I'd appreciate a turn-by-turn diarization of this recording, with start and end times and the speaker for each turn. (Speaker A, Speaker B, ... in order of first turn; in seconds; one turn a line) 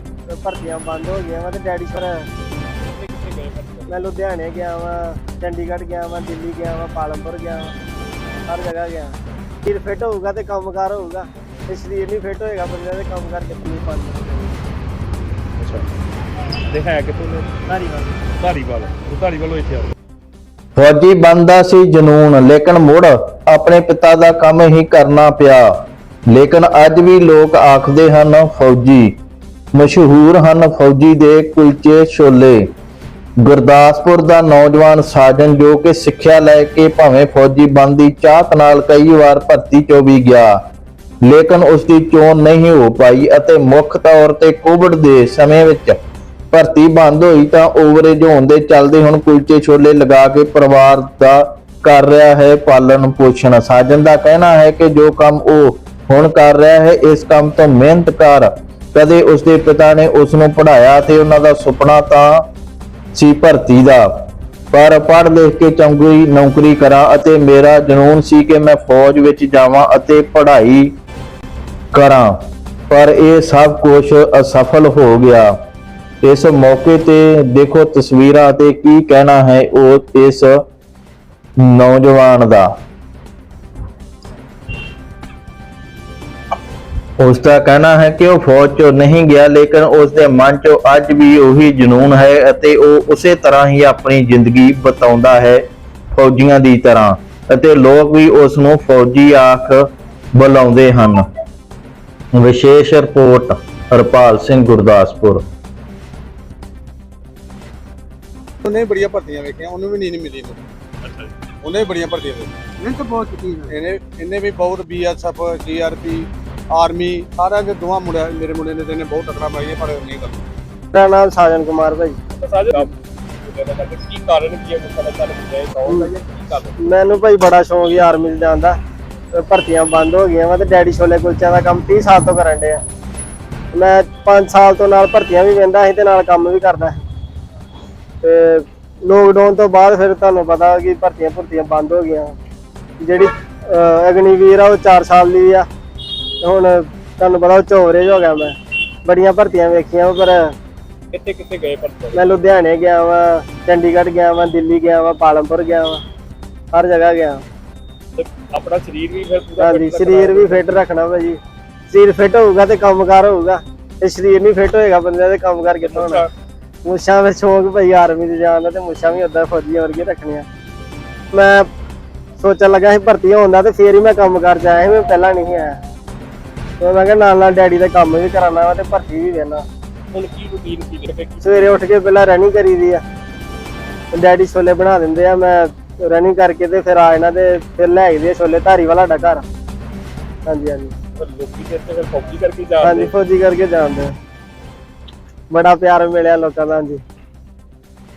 Speaker A: 0.3-2.3
Speaker B: 2.8-4.0
Speaker A: 3.9-7.8
Speaker A: 8.5-14.6
Speaker B: 16.7-17.5
Speaker A: 17.7-18.1
Speaker B: 18.4-19.9
Speaker C: 20.8-25.7
Speaker C: 26.3-29.1
Speaker C: 29.7-32.7
Speaker C: 33.4-40.5
Speaker C: 41.2-46.0
Speaker C: 46.5-62.5
Speaker C: 63.1-64.1
Speaker C: 64.7-70.9
Speaker C: 71.9-72.3
Speaker C: 72.9-75.5
Speaker C: 76.2-80.6
Speaker C: 81.6-82.7
Speaker C: 87.2-95.6
Speaker C: 96.1-101.2
Speaker C: 102.3-105.4
Speaker D: 108.6-110.6
Speaker B: 111.0-111.3
Speaker D: 111.6-120.4
Speaker A: 120.9-122.2
Speaker B: 122.3-122.9
Speaker B: 123.4-126.8
Speaker A: 126.8-128.8
Speaker A: 129.3-132.8
Speaker A: 133.7-137.0
Speaker A: 138.2-142.3
Speaker A: 143.0-145.7
Speaker A: 146.4-150.5
Speaker B: 151.1-152.2
Speaker A: 152.1-156.0
Speaker A: 156.7-157.4
Speaker B: 158.2-160.7
Speaker A: 159.6-161.4
Speaker A: 161.9-166.2
Speaker B: 165.8-166.3
Speaker A: 166.8-170.4
Speaker A: 171.3-171.7
Speaker A: 172.4-175.8
Speaker A: 176.8-179.6
Speaker B: 180.1-181.8
Speaker A: 181.4-183.0
Speaker A: 184.1-189.4
Speaker A: 190.4-190.9
Speaker B: 191.2-193.1
Speaker A: 192.8-194.1
Speaker A: 195.5-197.0